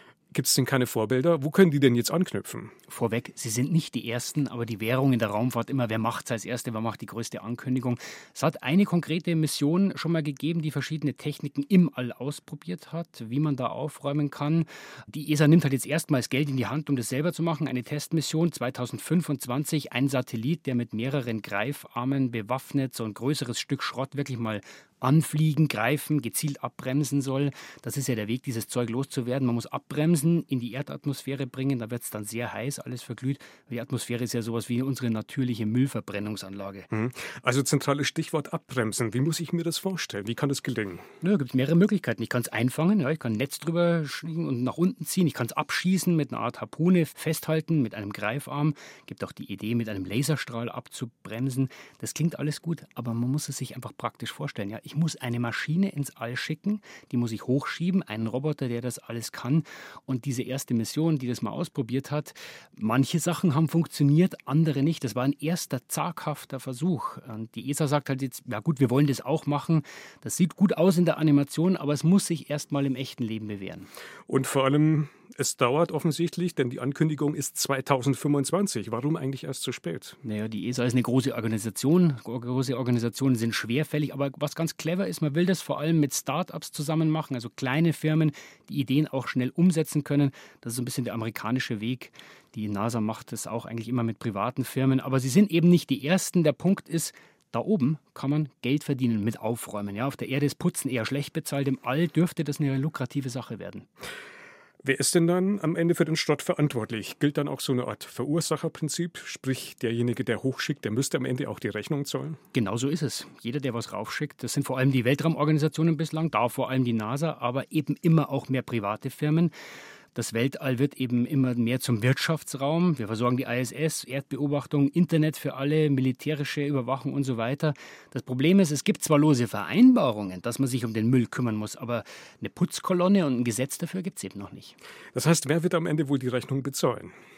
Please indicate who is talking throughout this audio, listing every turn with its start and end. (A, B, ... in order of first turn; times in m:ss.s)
0:00.3-0:02.7 A
0:02.9-0:36.9 B
0:36.9-0:41.0 A
0:41.2-1:13.9 B
1:14.3-1:20.2 A
1:20.2-1:43.9 B
1:44.8-1:52.4 A
1:52.5-1:59.5 B
2:00.1-2:14.8 B
2:15.1-2:17.1 A